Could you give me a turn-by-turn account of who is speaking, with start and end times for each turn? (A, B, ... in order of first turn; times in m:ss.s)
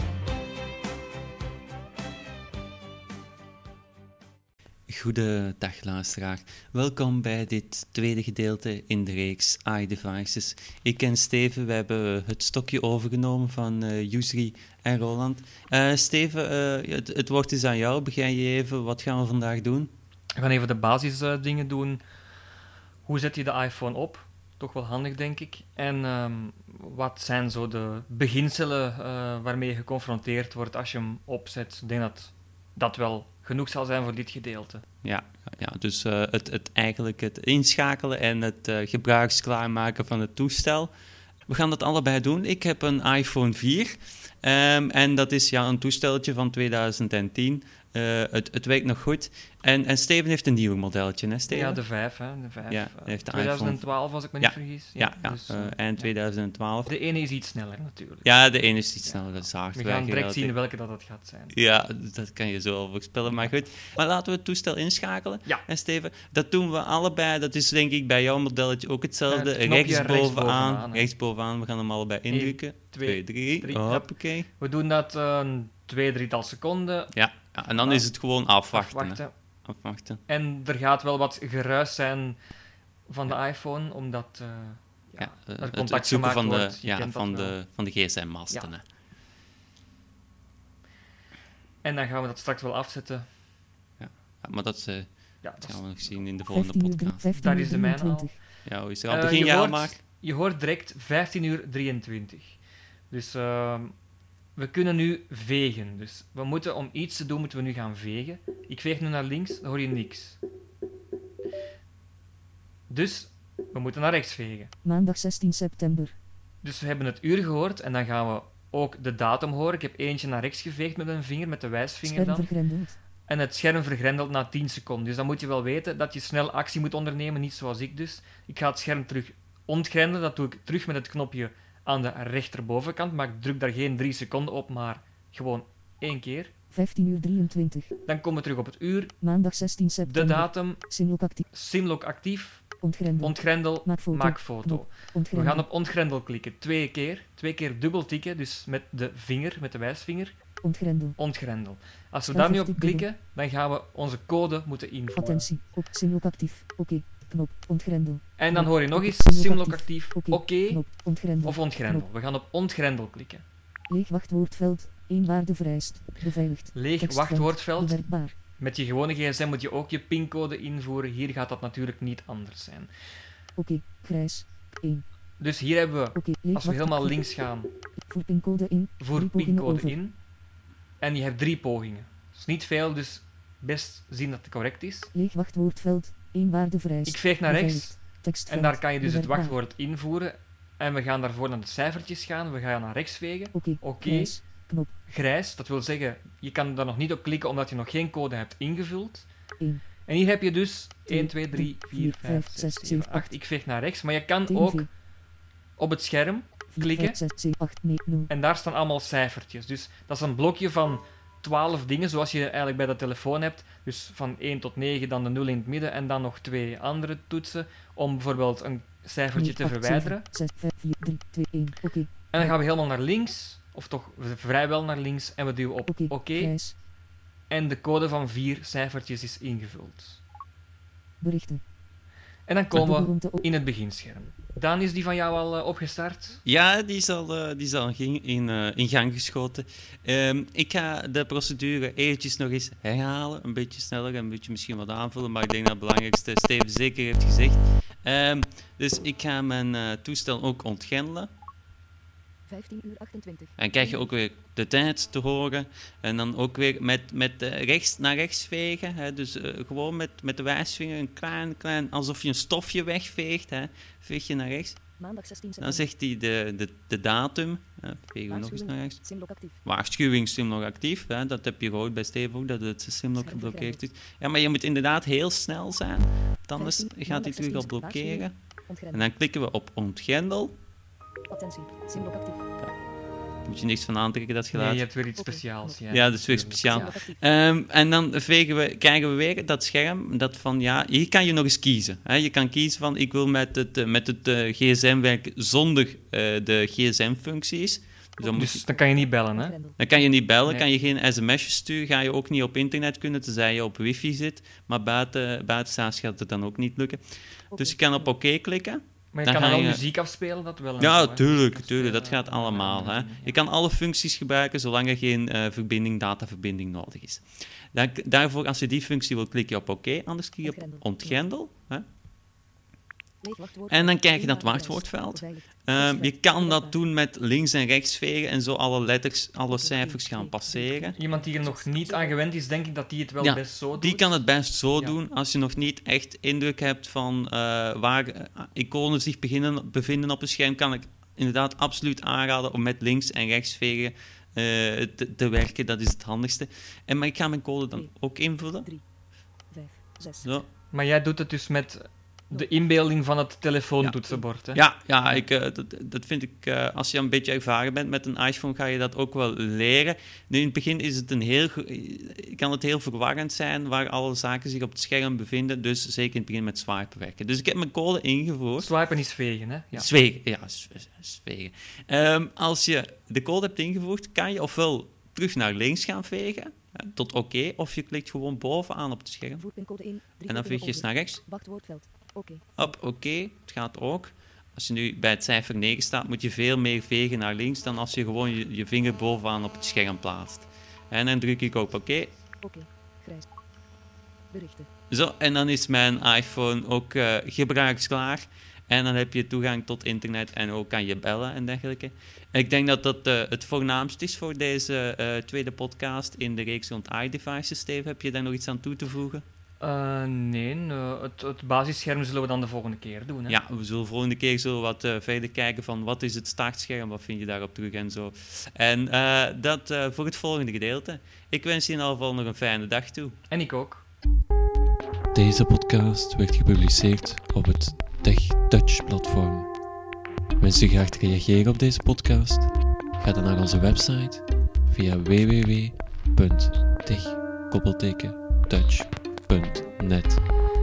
0:04.9-0:19.9 A
0:20.4-0:22.0 B
0:23.0-0:34.8 B
0:35.0-0:40.9 A
0:41.5-0:51.9 A
0:51.5-0:56.3 B
0:52.7-0:56.9 A
0:56.9-1:01.5 B
0:58.2-1:00.6 A
1:01.5-1:14.5 A
1:09.3-1:11.1 B
1:12.3-1:19.5 B
1:17.1-1:20.2 A
1:20.3-1:22.4 B
1:23.1-1:27.6 B
1:25.2-1:28.9 A
1:31.8-1:33.3 B
1:34.0-1:37.3 A
1:35.4-1:36.2 B
1:36.5-1:38.5 C
1:37.3-1:44.0 B
1:38.6-1:40.0 A
1:44.6-1:50.4 B
1:52.9-1:54.7 B
1:54.8-1:56.2 C
1:56.6-2:16.5 B
2:02.0-2:03.0 C
2:16.7-2:17.9 C
2:18.0-2:30.4 B
2:19.2-2:21.4 C
2:22.8-2:25.6 C
2:30.6-2:31.2 C
2:31.1-2:35.5 B
2:32.3-2:33.1 C
2:35.2-2:42.0 C
2:38.4-2:43.4 B
2:43.9-2:48.3 C
2:46.7-2:52.9 B
2:53.6-2:55.0 C
2:55.4-2:57.7 B
2:56.2-2:57.4 C
2:58.0-3:00.0 C
2:59.0-3:00.2 B
3:01.0-3:05.2 B
3:05.1-3:09.6 C
3:07.0-3:19.3 B
3:13.6-3:15.1 C
3:19.6-3:19.9 C
3:20.0-3:25.0 B
3:21.1-3:23.4 C
3:24.5-3:24.9 C
3:25.8-3:27.2 B
3:26.8-3:28.3 C
3:28.3-3:40.3 B
3:39.4-3:42.5 C
3:42.3-3:46.8 B
3:45.9-3:46.8 C
3:47.5-3:50.2 B
3:51.2-3:51.6 C
3:52.5-3:56.4 B
3:52.8-3:53.4 C
3:56.4-4:11.3 A
4:12.5-4:14.1 D
4:13.6-4:25.0 A
4:25.0-4:25.9 D
4:25.6-4:40.6 A
4:28.3-4:29.6 D
4:33.2-4:33.9 D
4:36.6-4:39.1 D
4:41.3-4:42.5 D
4:42.6-4:44.9 A
4:44.5-4:47.0 B
4:45.2-4:47.3 D
4:45.9-4:58.6 A
4:58.3-4:59.9 D
4:58.3-4:59.7 B
4:59.8-5:09.9 A
5:00.4-5:00.7 B
5:07.5-5:08.1 D
5:09.1-5:13.4 B
5:10.8-5:21.9 A
5:20.4-5:21.2 D
5:23.2-5:26.8 D
5:23.7-5:31.0 A
5:29.4-5:32.2 D
5:31.0-5:35.0 B
5:33.2-5:48.7 A
5:47.7-5:48.9 D
5:49.4-5:50.4 D
5:50.2-5:50.5 A
5:50.7-5:54.6 B
5:52.3-5:52.6 D
5:53.8-6:08.7 A
6:08.6-6:09.9 B
6:09.7-6:19.5 A
6:19.4-6:22.8 D
6:20.2-6:21.4 A
6:22.6-6:32.2 A
6:32.4-6:33.3 D
6:34.3-6:34.7 D
6:34.9-6:49.2 A
6:49.6-6:53.4 B
6:53.3-7:03.2 A
7:03.3-7:03.9 B
7:05.1-7:09.6 E
7:10.4-7:20.2 E